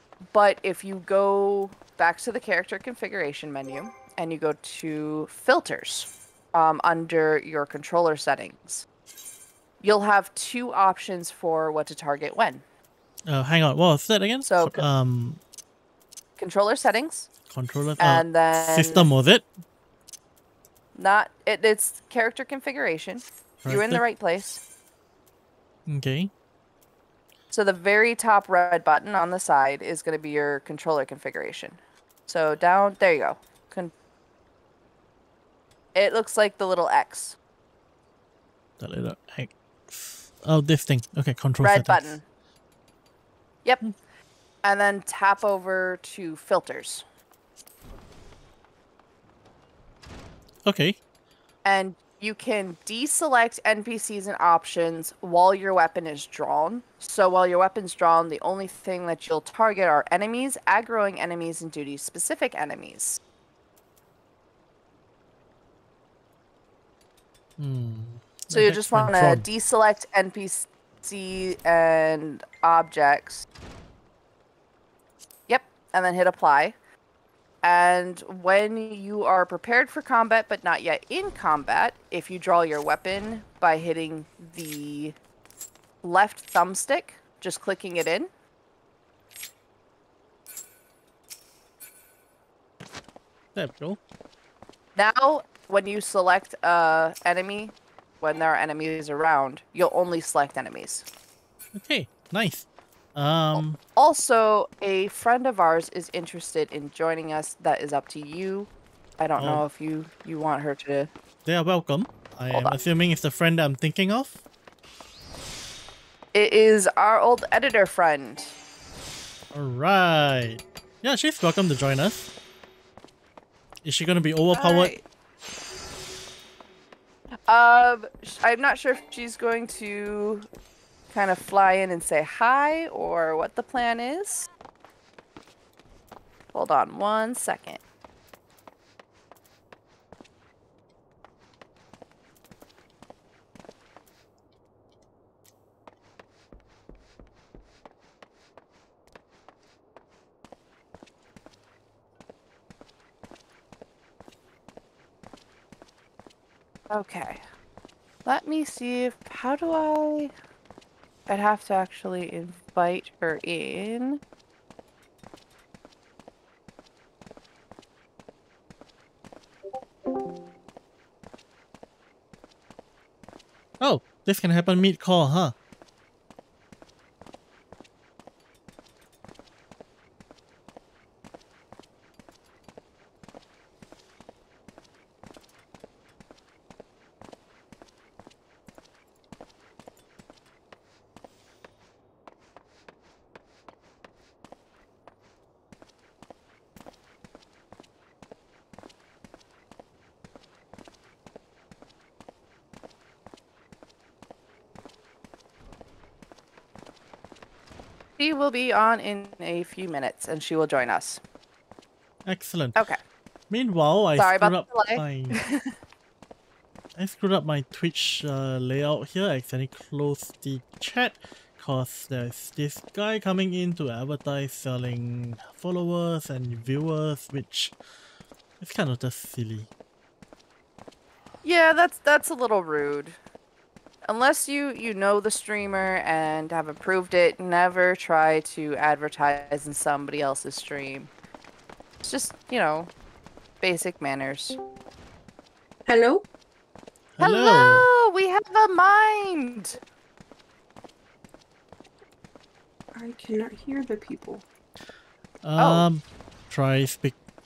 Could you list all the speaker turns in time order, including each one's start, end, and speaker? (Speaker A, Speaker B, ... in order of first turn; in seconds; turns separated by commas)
Speaker A: 0.3-8.9, Speaker A: 9.8-12.6, Speaker B: 13.3-15.4, Speaker A: 14.4-14.8, Speaker A: 16.4-17.3, Speaker B: 17.5-19.4, Speaker A: 18.0-19.1, Speaker A: 21.0-24.6, Speaker B: 23.6-24.0, Speaker B: 25.9-26.3, Speaker A: 27.5-33.9, Speaker A: 36.0-37.4, Speaker B: 38.8-42.2, Speaker A: 41.6-42.2, Speaker A: 44.6-47.0, Speaker B: 50.6-51.0, Speaker A: 51.6-63.2, Speaker B: 67.6-69.5, Speaker A: 68.5-73.5, Speaker A: 75.5-76.8, Speaker A: 77.6-85.2, Speaker A: 86.0-88.3, Speaker B: 93.5-94.0, Speaker A: 95.0-101.0, Speaker B: 101.8-103.8, Speaker A: 103.5-111.1, Speaker B: 109.4-109.6, Speaker B: 111.5-114.4, Speaker A: 112.5-112.8, Speaker A: 116.3-118.5, Speaker B: 119.5-122.3, Speaker B: 123.8-124.9, Speaker A: 124.5-125.0, Speaker A: 127.5-130.5, Speaker A: 131.1-134.5, Speaker A: 136.5-137.8, Speaker A: 156.9-157.4, Speaker A: 158.2-160.3, Speaker A: 161.3-164.2, Speaker B: 173.8-175.5, Speaker A: 208.2-211.2, Speaker B: 212.3-212.8, Speaker B: 213.5-215.4, Speaker A: 214.2-215.8, Speaker B: 217.0-227.8, Speaker B: 228.6-229.7, Speaker A: 231.4-233.2, Speaker A: 234.1-241.1, Speaker A: 242.0-242.9, Speaker A: 243.6-244.6, Speaker C: 245.9-246.2, Speaker B: 247.2-247.9, Speaker A: 247.2-249.8, Speaker C: 252.9-254.5, Speaker B: 255.4-257.2, Speaker A: 255.6-255.8